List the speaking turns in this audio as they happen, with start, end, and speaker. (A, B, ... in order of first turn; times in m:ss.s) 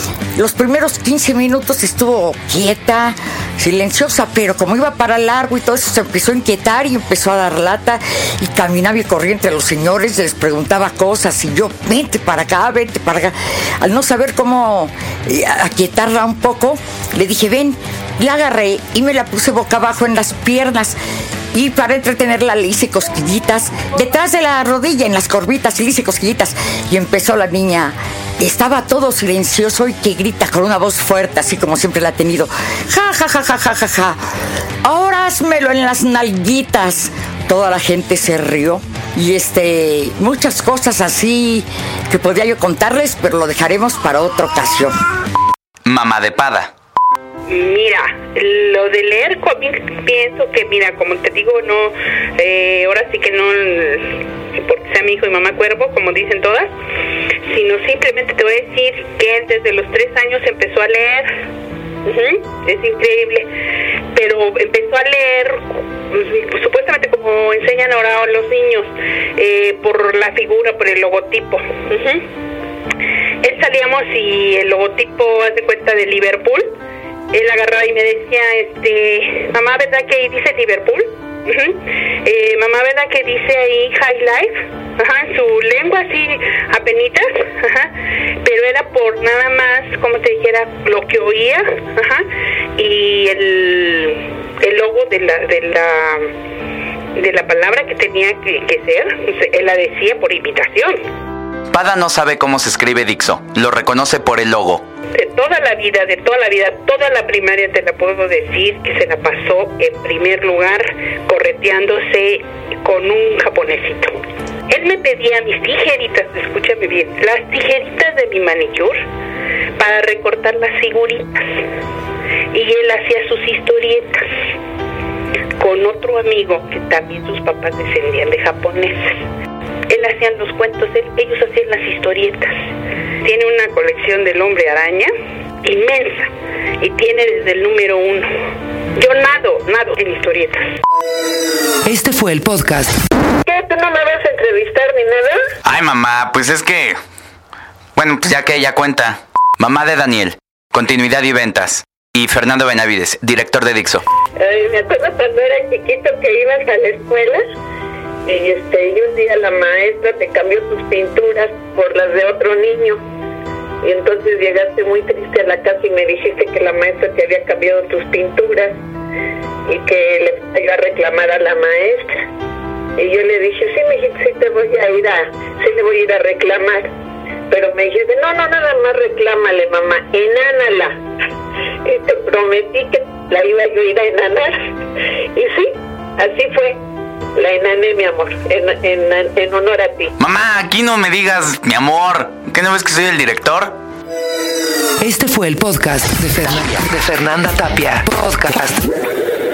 0:00.4-0:21.0 A
0:21.5-0:34.2 A
0:34.8-0:44.9 A
0:45.8-0:46.7 B
0:47.5-0:56.7 C
0:57.4-1:01.3 C
1:02.0-1:03.5 C
1:04.1-1:12.2 C
1:13.4-1:16.7 C
1:17.3-1:27.9 C
1:28.4-1:32.2 C
1:32.8-1:36.3 C
1:37.2-1:41.0 C
1:41.7-1:44.8 B
1:45.1-1:54.1 C
1:54.7-1:59.0 C
1:59.8-2:01.5 C
2:02.5-2:04.3 C
2:05.6-2:09.2 C
2:09.9-2:12.6 C
2:13.2-2:15.1 C
2:15.6-2:18.3 C
2:19.0-2:20.7 C
2:21.9-2:22.9 D
2:23.4-2:25.4 E
2:25.6-2:27.0 B
2:28.0-2:34.0 B
2:34.4-2:37.4 E
2:38.2-2:43.0 E
2:43.8-2:48.8 E
2:49.7-2:52.1 E
2:53.0-2:56.8 E
2:57.5-3:00.9 E
3:01.8-3:04.6 E
3:05.3-3:06.8 E
3:07.4-3:10.1 E
3:10.2-3:13.8 B
3:15.0-3:18.8 D